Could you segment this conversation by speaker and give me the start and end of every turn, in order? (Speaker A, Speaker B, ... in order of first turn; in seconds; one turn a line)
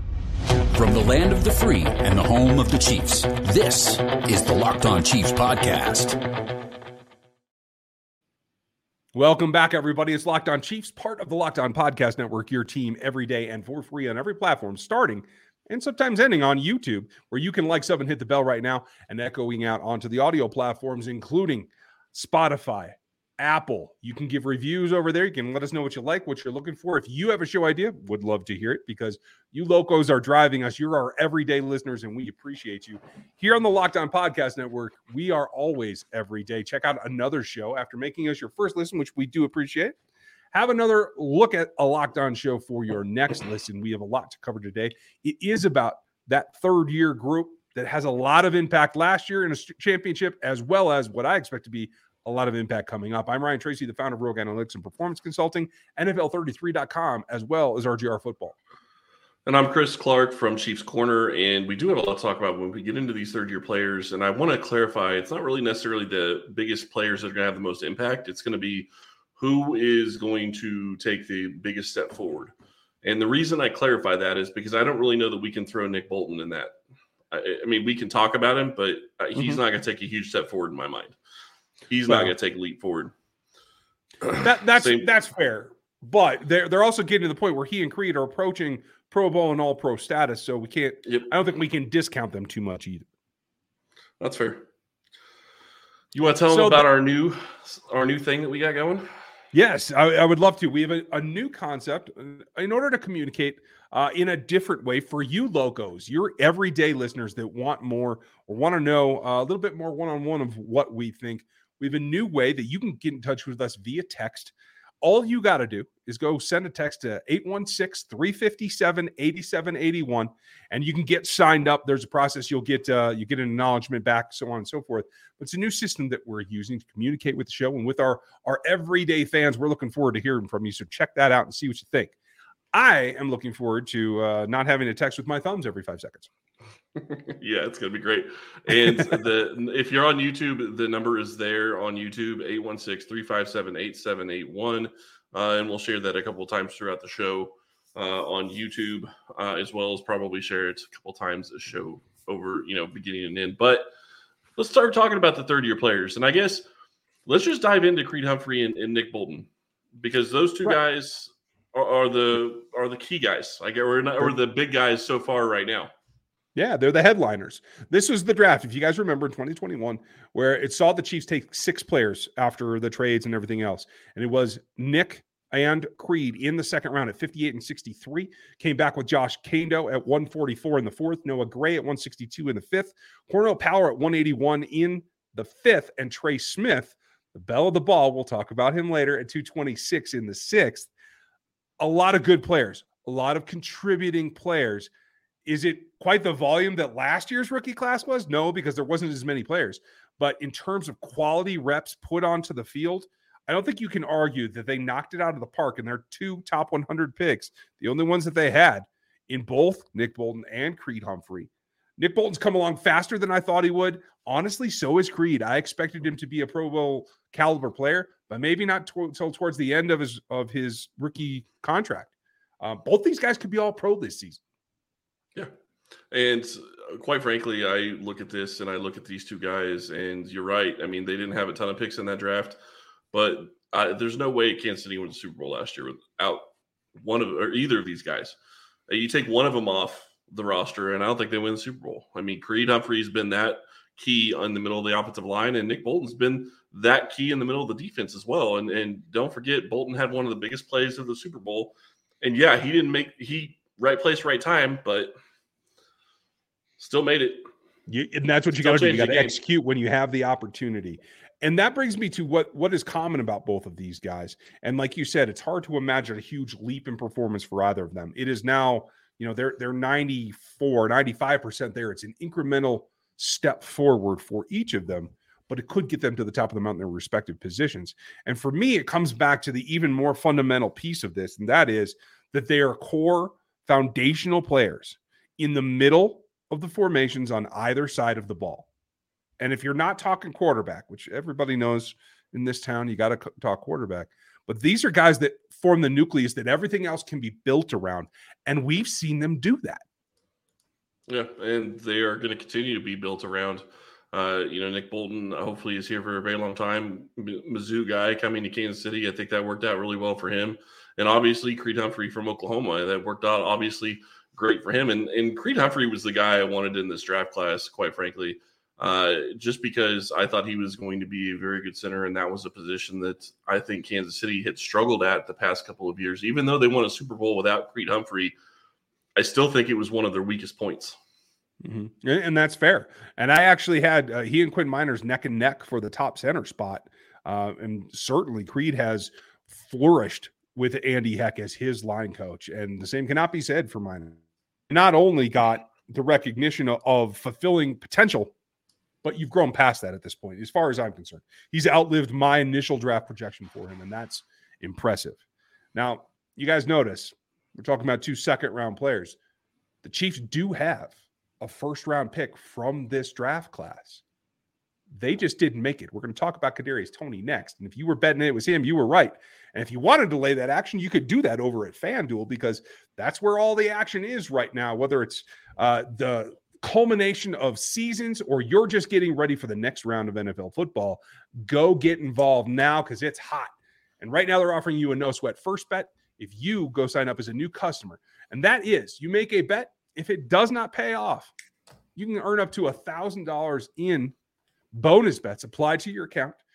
Speaker A: 0.7-6.2
Speaker B: 9.1-40.0
Speaker B: 40.5-58.6
Speaker C: 59.5-72.5
Speaker C: 73.0-76.8
Speaker C: 77.3-81.2
Speaker C: 81.9-83.1
Speaker B: 82.1-82.3
Speaker C: 84.3-85.0
Speaker B: 84.4-93.1
Speaker C: 94.2-94.6
Speaker C: 96.1-99.1
Speaker B: 96.5-96.8
Speaker B: 99.5-132.1
Speaker B: 132.7-136.3
Speaker C: 137.3-153.9
Speaker B: 138.7-139.2
Speaker C: 154.6-156.7
Speaker C: 157.3-165.9
Speaker B: 166.6-190.9
Speaker B: 191.8-194.9
Speaker B: 195.5-224.4
Speaker C: 226.1-232.6
Speaker C: 233.1-236.5
Speaker C: 237.0-238.4
Speaker C: 238.9-255.1
Speaker C: 256.8-257.5
Speaker B: 257.9-288.7
Speaker C: 258.6-259.4
Speaker B: 289.4-299.8
Speaker C: 301.1-328.4
Speaker C: 329.2-331.0
Speaker B: 331.6-348.3
Speaker B: 349.0-355.2
Speaker B: 355.7-359.2
Speaker B: 359.8-364.0
Speaker B: 364.9-391.3
Speaker B: 392.0-394.1
Speaker B: 394.7-396.4